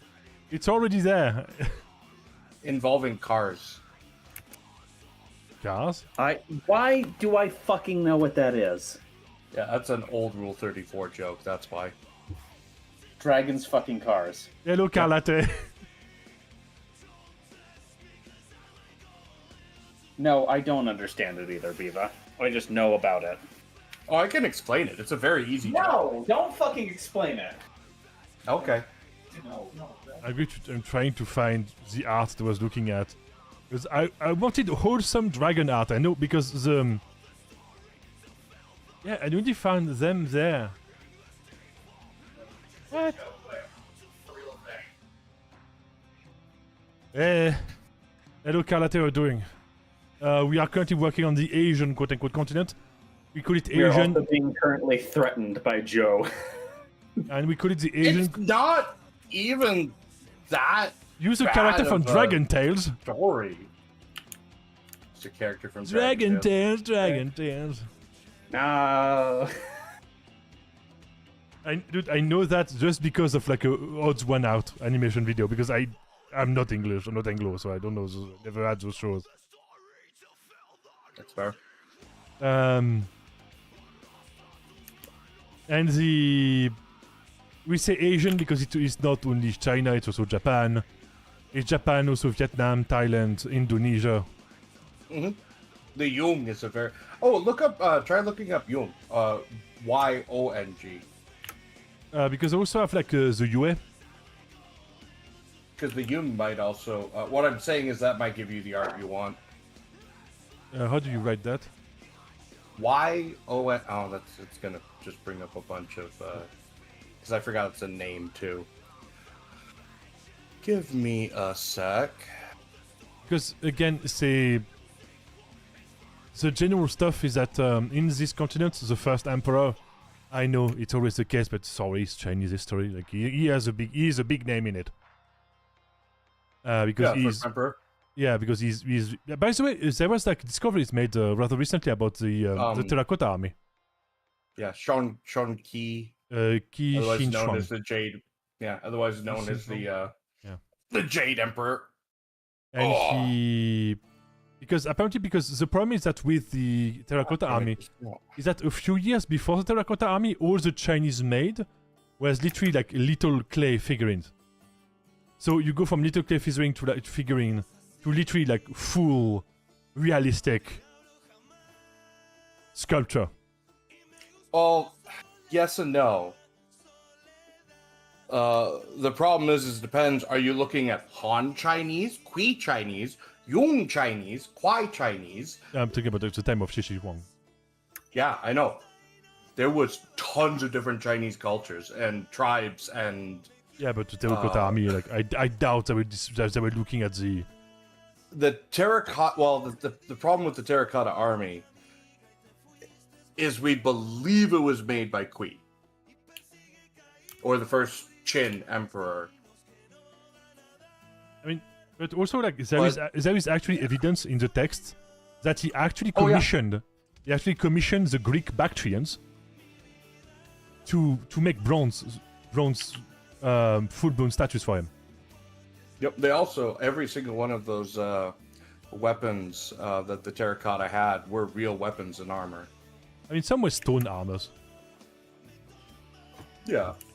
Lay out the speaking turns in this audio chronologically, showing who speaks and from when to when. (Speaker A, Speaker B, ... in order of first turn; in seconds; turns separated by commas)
Speaker A: 0.5-1.7, Speaker B: 2.6-3.8, Speaker A: 5.6-6.0, Speaker C: 6.2-9.0, Speaker B: 9.5-11.9, Speaker C: 13.2-14.5, Speaker A: 14.6-15.5, Speaker C: 20.2-23.4, Speaker B: 24.1-26.0, Speaker C: 25.6-27.6, Speaker B: 28.5-28.9, Speaker C: 29.3-30.2, Speaker A: 30.2-33.2, Speaker A: 33.7-37.0, Speaker A: 39.0-40.8, Speaker A: 42.9-43.2, Speaker A: 47.1-47.6, Speaker A: 48.4-49.5, Speaker A: 50.2-52.7, Speaker A: 53.3-54.2, Speaker C: 53.7-56.3, Speaker A: 57.3-58.4, Speaker B: 58.0-60.0, Speaker B: 60.5-62.4, Speaker A: 61.2-63.0, Speaker B: 63.0-63.7, Speaker B: 65.2-66.5, Speaker A: 65.8-67.9, Speaker C: 68.5-69.5, Speaker A: 71.7-79.2, Speaker B: 81.2-81.6, Speaker A: 82.4-83.1, Speaker A: 85.7-86.7, Speaker A: 87.7-90.8, Speaker A: 91.5-94.3, Speaker B: 95.1-95.4, Speaker B: 96.0-101.1, Speaker A: 102.1-103.8, Speaker B: 105.8-109.4, Speaker A: 110.7-111.7, Speaker B: 112.8-116.5, Speaker B: 117.2-118.7, Speaker B: 120.6-122.3, Speaker A: 123.2-124.7, Speaker A: 126.3-129.8, Speaker A: 130.3-134.9, Speaker A: 136.6-137.5, Speaker B: 137.0-137.8, Speaker A: 138.2-143.5, Speaker B: 142.6-143.0, Speaker B: 144.6-146.1, Speaker A: 146.3-147.7, Speaker B: 146.9-150.1, Speaker A: 149.3-149.8, Speaker B: 150.9-151.9, Speaker A: 152.7-154.0, Speaker B: 152.8-153.3, Speaker A: 154.6-157.8, Speaker B: 157.4-158.2, Speaker A: 158.4-161.7, Speaker A: 162.2-164.3, Speaker A: 165.4-170.8, Speaker A: 172.8-173.3, Speaker B: 174.5-175.0, Speaker B: 175.5-176.4, Speaker B: 178.3-185.6, Speaker A: 185.7-187.3, Speaker B: 188.1-188.8, Speaker B: 189.6-193.5, Speaker A: 193.8-197.5, Speaker B: 194.3-194.8, Speaker B: 198.3-201.7, Speaker B: 203.4-205.6, Speaker B: 207.4-209.3, Speaker A: 211.4-219.2, Speaker B: 216.2-216.5, Speaker A: 220.9-224.9, Speaker B: 226.0-228.3, Speaker B: 228.9-232.7, Speaker A: 233.3-234.5, Speaker B: 236.7-236.9